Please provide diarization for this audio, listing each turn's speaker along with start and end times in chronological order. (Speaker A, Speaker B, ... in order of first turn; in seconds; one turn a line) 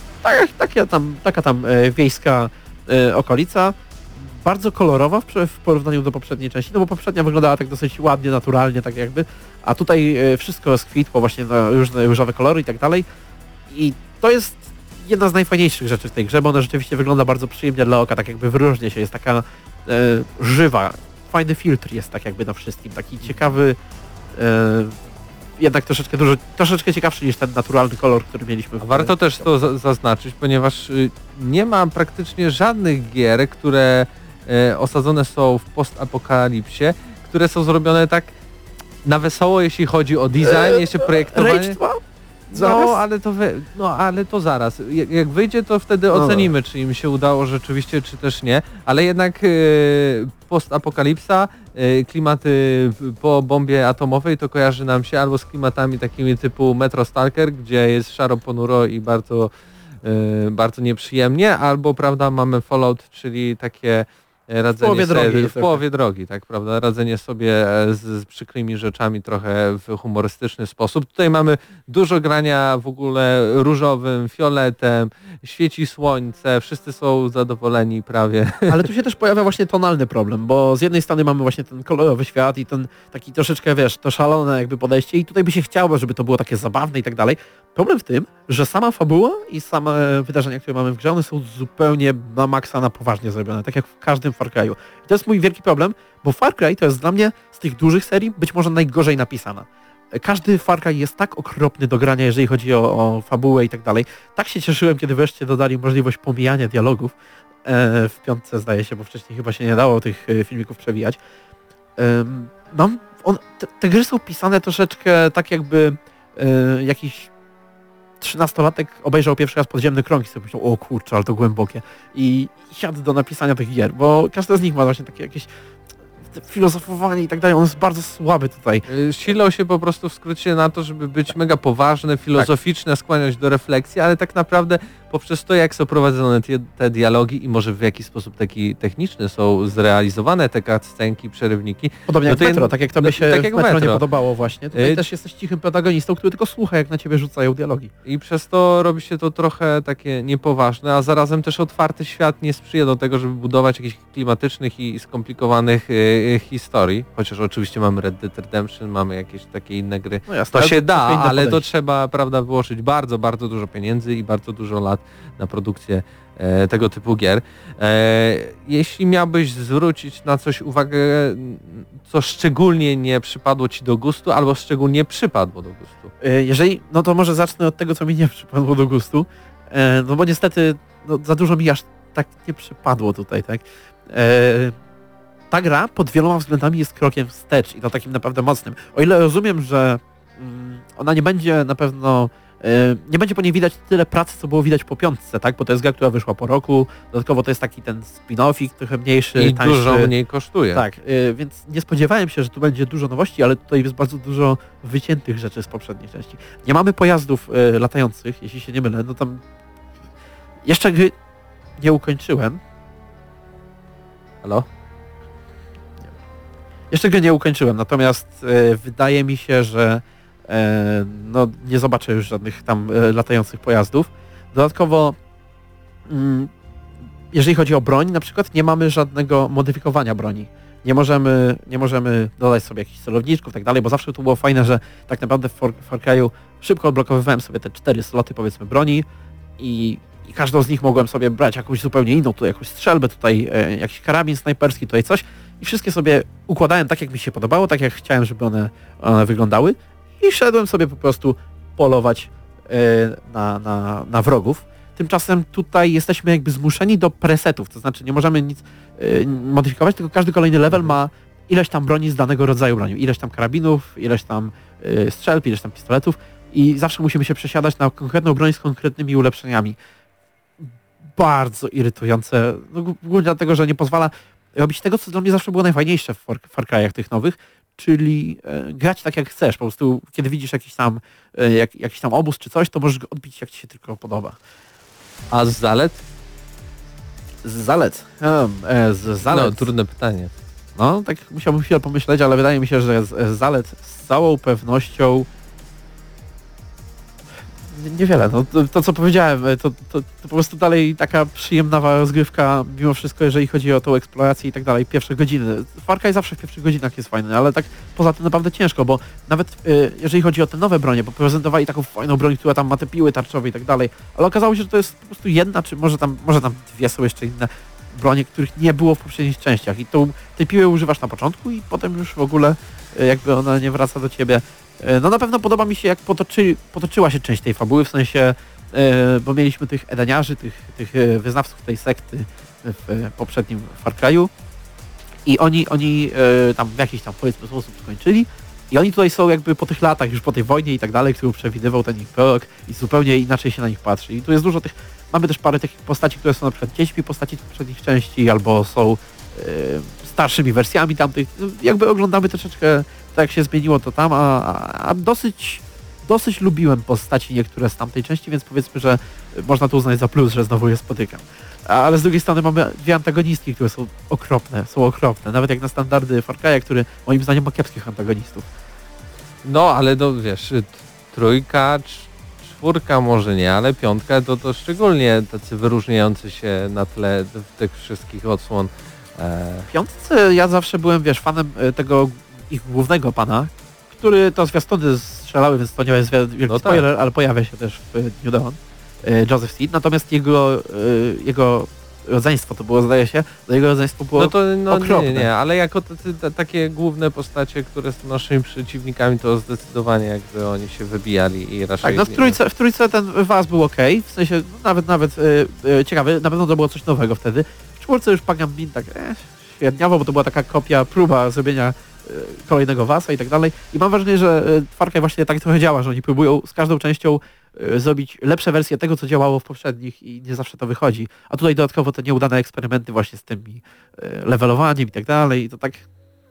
Speaker A: 0.2-13.1
Speaker A: 13.7-23.8
Speaker A: 24.4-24.9
Speaker A: 25.6-29.5
Speaker B: 28.8-38.3
Speaker B: 39.0-41.8
Speaker A: 40.4-42.0
Speaker B: 42.5-59.5
Speaker A: 42.5-43.0
Speaker A: 46.1-46.5
Speaker B: 60.0-78.8
Speaker A: 64.8-65.8
Speaker A: 78.7-107.1
Speaker A: 107.6-111.2
Speaker A: 112.0-117.3
Speaker A: 118.2-125.5
Speaker A: 126.3-128.8
Speaker B: 128.9-144.0
Speaker A: 142.1-147.9
Speaker B: 144.7-145.0
Speaker B: 148.1-176.1
Speaker A: 160.3-161.6
Speaker A: 176.2-184.8
Speaker A: 185.5-200.1
Speaker B: 199.3-200.8
Speaker A: 200.7-209.4
Speaker A: 210.7-211.1
Speaker A: 211.8-212.6
Speaker A: 216.9-225.2
Speaker A: 226.1-226.5
Speaker A: 227.3-239.1
Speaker A: 239.6-269.8
Speaker A: 271.2-284.4
Speaker B: 285.3-286.0
Speaker A: 287.4-289.7
Speaker B: 289.3-290.3
Speaker A: 290.8-295.3
Speaker A: 297.7-334.3
Speaker A: 335.2-368.4
Speaker B: 369.4-379.7
Speaker A: 379.7-395.3
Speaker B: 386.5-386.8
Speaker B: 394.2-402.4
Speaker A: 401.8-425.9